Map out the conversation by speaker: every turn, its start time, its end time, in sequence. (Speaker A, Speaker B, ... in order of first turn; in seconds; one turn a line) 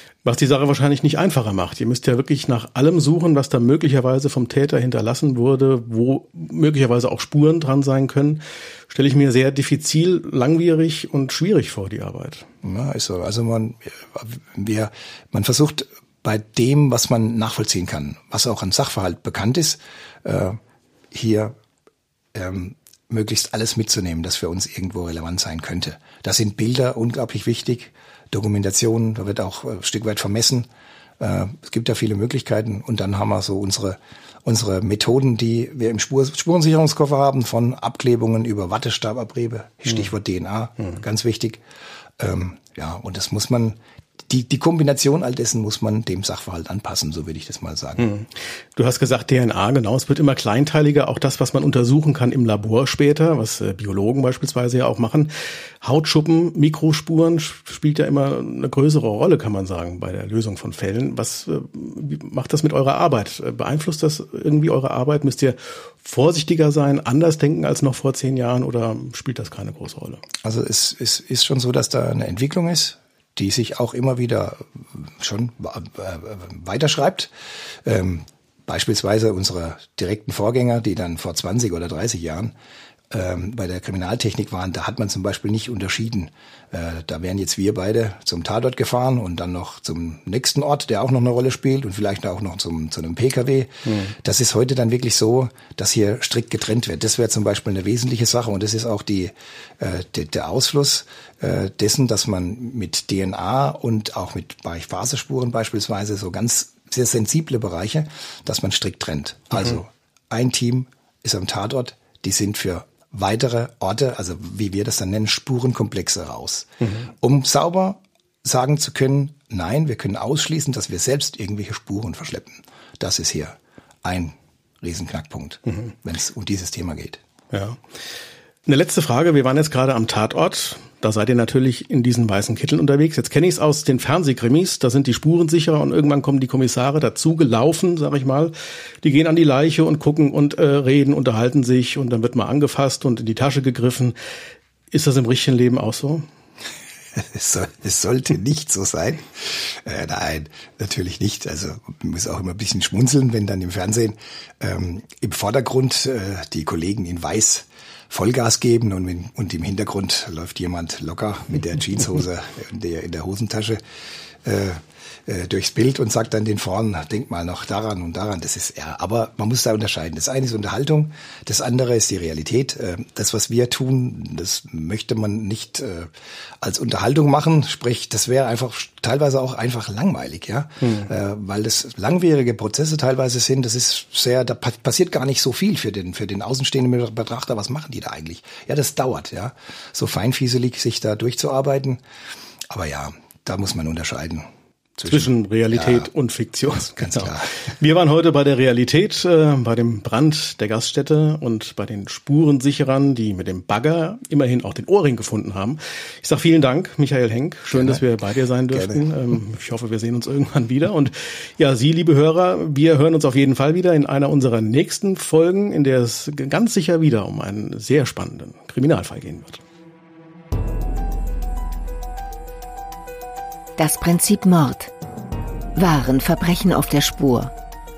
Speaker A: 0.2-12.5
Speaker B: 12.6-20.6
Speaker B: 21.1-21.5
Speaker B: 22.3-30.7
Speaker B: 31.2-41.6
Speaker B: 42.2-43.8
Speaker B: 44.3-48.1
Speaker A: 48.0-55.3
Speaker A: 55.8-70.2
Speaker B: 70.4-77.3
Speaker B: 77.8-82.5
Speaker B: 83.1-116.7
Speaker B: 117.2-127.2
Speaker A: 127.5-127.8
Speaker A: 128.7-144.2
Speaker A: 144.9-146.2
Speaker B: 147.2-163.8
Speaker B: 164.4-192.0
Speaker B: 192.7-194.5
Speaker B: 195.0-196.1
Speaker A: 195.1-219.6
Speaker B: 197.0-197.5
Speaker B: 207.7-208.0
Speaker B: 208.7-209.1
Speaker C: 223.8-224.9
Speaker C: 225.8-227.5